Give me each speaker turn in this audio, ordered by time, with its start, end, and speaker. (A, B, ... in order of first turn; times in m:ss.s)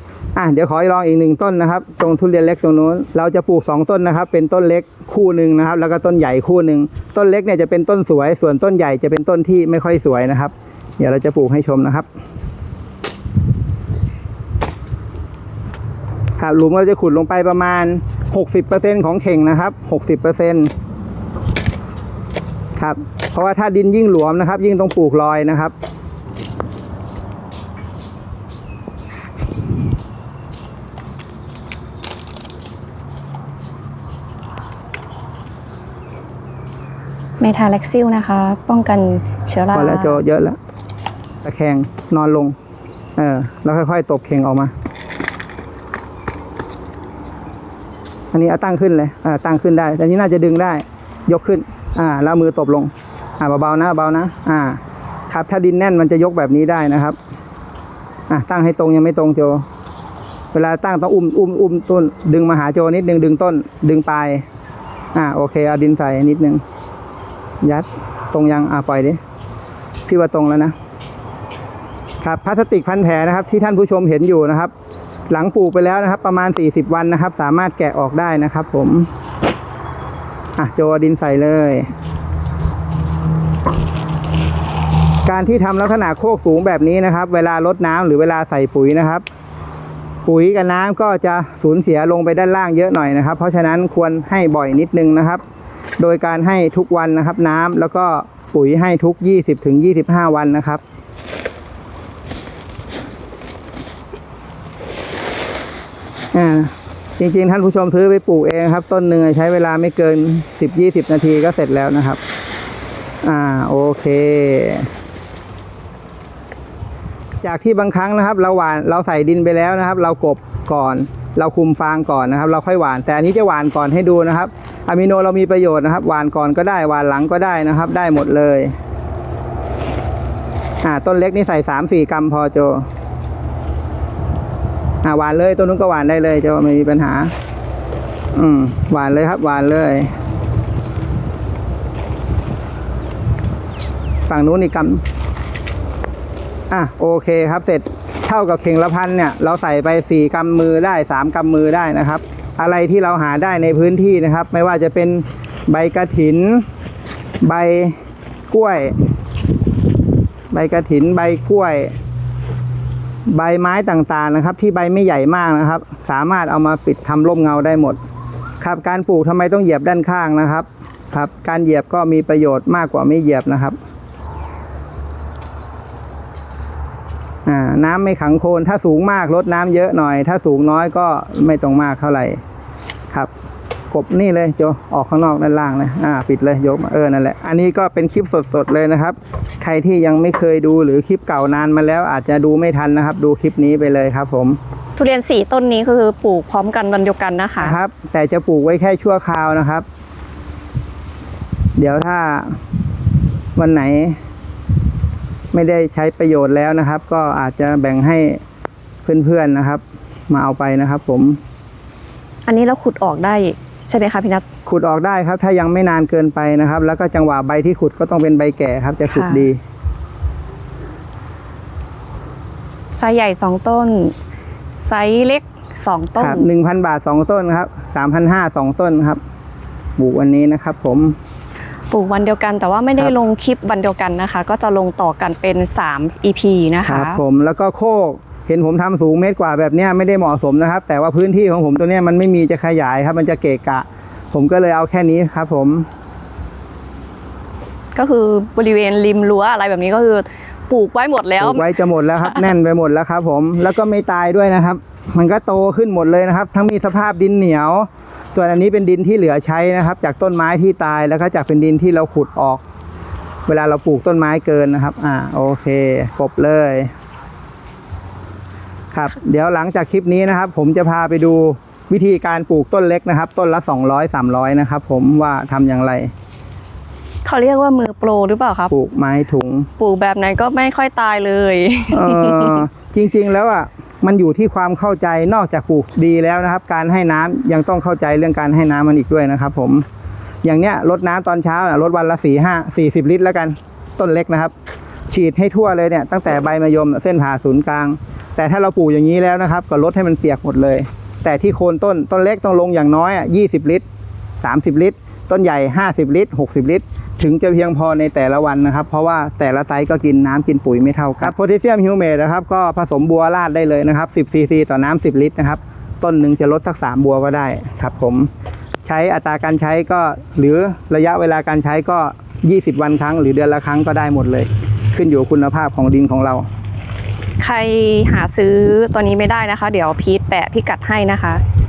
0:00.3-0:12.0 A
0:16.4-0:20.7 A
0:22.8-0:25.7 A
0:37.4-0:40.2 B
0:39.7-0:40.6 A
0:41.4-0:42.6 A
0:43.2-0:44.7 A
0:48.3-0:57.2 A
0:58.3-0:59.6 A
1:00.5-1:04.4 A
1:05.1-1:06.6 A
1:07.6-1:09.2 A
1:10.1-1:10.7 A
1:12.2-1:14.7 A
1:15.3-1:19.1 A
1:20.6-1:21.9 A
1:25.2-1:29.2 A
1:30.2-1:35.4 A
1:36.0-1:40.8 A
1:46.3-1:52.2 A
1:53.2-1:54.9 A
1:57.4-2:08.7 A
2:10.8-2:12.9 A
2:15.0-2:17.3 A
2:18.3-2:20.1 A
2:24.3-2:25.0 A
2:26.7-2:36.6 A
2:37.4-2:38.0 A
2:38.5-2:39.0 A
2:40.5-2:41.9 A
2:43.3-2:48.0 A
2:48.6-2:53.8 A
2:57.4-3:02.4 A
3:03.9-3:14.6 A
3:15.0-3:17.8 B
3:17.6-3:19.8 A
3:21.8-3:22.6 A
3:23.6-3:24.2 A
3:25.5-3:28.4 A
3:29.0-3:31.4 A
3:32.4-3:34.4 B
3:34.6-3:39.6 A
3:39.1-3:39.5 B
3:42.9-3:44.1 B
3:44.8-3:46.5 B
3:46.2-3:49.2 A
3:50.0-3:51.2 A
3:51.9-3:57.2 B
3:56.8-4:05.9 A
4:07.9-4:12.5 B
4:11.4-4:22.6 A
4:23.5-4:26.9 A
4:28.9-4:36.1 A
4:37.2-4:38.7 B
4:38.7-4:39.7 A
4:39.8-4:42.7 B
4:41.9-4:49.8 A
4:50.4-4:54.5 A
4:55.1-5:03.8 A
5:04.4-5:18.3 A
5:18.8-5:26.4 A
5:27.4-5:31.4 B